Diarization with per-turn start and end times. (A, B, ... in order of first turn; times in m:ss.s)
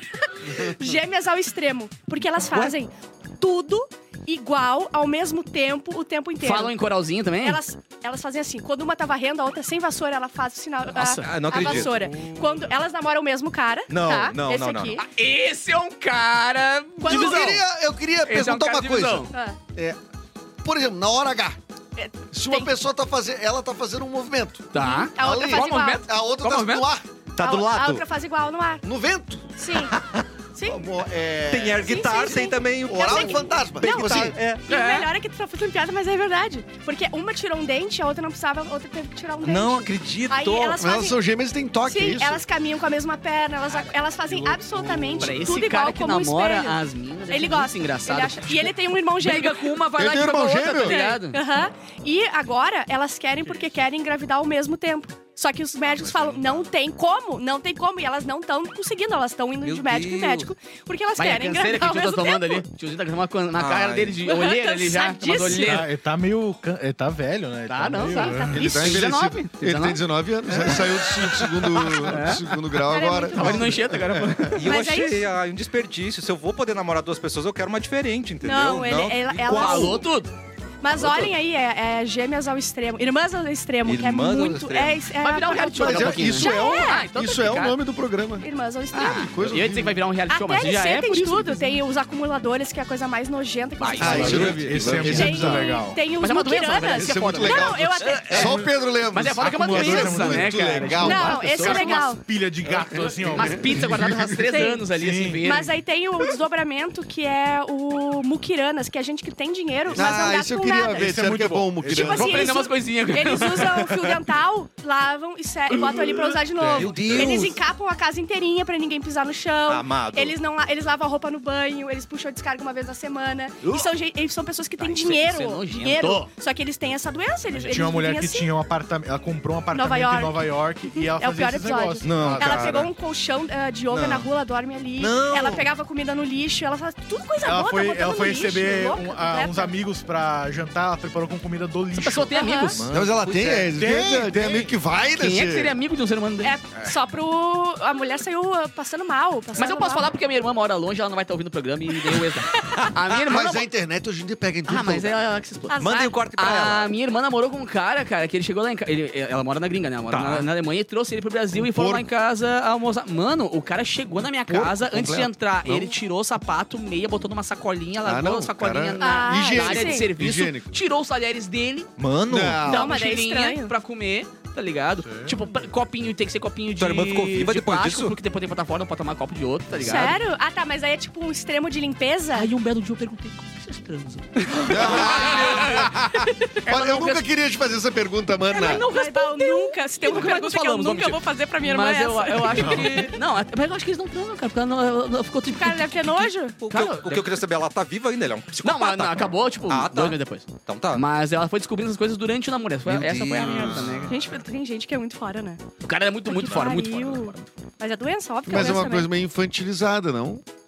0:00.2-0:06.7 A
0:06.4-0:07.6 B
0:07.4-0:15.0 A
0:10.9-0:12.0 B
0:11.2-0:12.2 C
0:13.9-0:15.0 C
0:15.0-0:17.6 B
0:17.0-0:17.6 A
0:17.0-0:20.0 D
0:18.2-0:19.3 B
0:19.3-0:19.6 A
0:20.6-0:21.6 D
0:22.0-0:22.7 A
0:22.3-0:27.1 D
0:24.7-0:26.9 B
0:24.8-0:26.0 A
0:27.3-0:28.0 C
0:27.4-0:28.8 A
0:28.8-0:29.5 D
0:29.6-0:29.9 A
0:29.8-0:30.2 C
0:30.5-0:30.8 A
0:30.6-0:31.9 D
0:31.5-0:34.7 C
0:31.8-0:41.2 A
0:32.8-0:34.4 D
0:34.7-0:35.1 B
0:39.4-0:40.8 C
0:40.8-0:42.4 D
0:41.8-0:46.8 A
0:44.3-0:44.8 E
0:44.4-0:45.6 D
0:45.2-0:51.4 B
0:47.3-0:49.6 A
0:50.0-0:51.0 D
0:50.8-1:02.6 A
0:55.8-0:56.7 C
0:59.6-1:00.5 C
1:01.2-1:05.9 B
1:03.6-1:04.2 C
1:04.2-1:05.9 A
1:05.5-1:08.6 E
1:07.7-1:10.0 B
1:08.0-1:09.1 A
1:08.5-1:14.6 D
1:11.8-1:12.5 B
1:12.8-1:13.8 A
1:13.3-1:14.7 B
1:14.5-1:20.0 C
1:14.6-1:15.2 A
1:18.4-1:20.0 A
1:19.4-1:20.3 B
1:20.8-1:27.0 A
1:20.9-1:21.3 B
1:23.8-1:25.0 C
1:25.2-1:27.8 B
1:25.6-1:28.5 D
1:28.4-1:29.3 A
1:28.9-1:31.8 B
1:29.0-1:30.0 D
1:30.3-1:38.6 A
1:33.8-1:35.2 B
1:34.0-1:36.0 E
1:34.0-1:35.8 D
1:34.0-1:35.1 C
1:36.1-1:42.2 B
1:36.9-1:41.5 D
1:38.4-1:38.7 E
1:39.3-1:40.8 E
1:41.0-1:42.2 A
1:41.5-1:44.0 E
1:42.6-1:44.6 D
1:43.3-1:45.7 B
1:44.5-1:44.9 A
1:44.9-1:45.4 E
1:45.4-1:51.1 A
1:49.9-1:52.5 D
1:51.0-1:54.2 B
1:51.7-1:52.1 E
1:51.9-2:08.5 A
1:55.8-1:56.3 B
1:56.6-1:57.4 E
1:56.7-1:57.6 C
1:59.7-2:00.4 C
2:03.6-2:03.9 B
2:04.8-2:06.3 B
2:07.5-2:07.8 B
2:07.7-2:12.9 E
2:09.7-2:19.7 A
2:12.0-2:12.9 C
2:13.9-2:14.3 C
2:15.0-2:15.7 C
2:17.4-2:22.3 E
2:21.9-2:22.8 B
2:22.3-2:22.8 A
2:22.8-2:23.7 C
2:22.9-2:25.8 D
2:23.7-2:24.7 E
2:25.2-2:26.5 B
2:26.4-2:30.1 A
2:29.6-2:33.7 B
2:33.2-2:35.2 D
2:34.7-2:35.8 B
2:35.7-2:36.2 A
2:35.8-2:36.9 C
2:36.4-2:51.9 B
2:40.1-2:40.4 C
2:41.5-2:42.1 D
2:44.5-2:46.0 D
2:48.0-2:50.7 D
2:49.0-2:50.1 A
2:52.0-2:52.6 C
2:52.3-2:53.0 D
2:52.6-2:53.7 A
2:52.7-3:00.2 B
2:55.0-2:55.4 E
2:56.8-2:58.2 C
2:59.8-3:02.5 A
3:02.3-3:06.0 B
3:04.6-3:08.9 D
3:04.7-3:05.7 C
3:05.1-3:05.6 A
3:06.6-3:07.2 B
3:08.5-3:13.1 A
3:08.6-3:17.4 B
3:12.5-3:12.9 E
3:15.5-3:16.6 A
3:16.6-3:21.0 C
3:18.6-3:24.2 B
3:22.9-3:24.3 C
3:23.4-3:24.0 E
3:24.1-3:25.6 A
3:25.8-3:27.5 B
3:26.2-3:29.1 A
3:28.5-3:30.4 D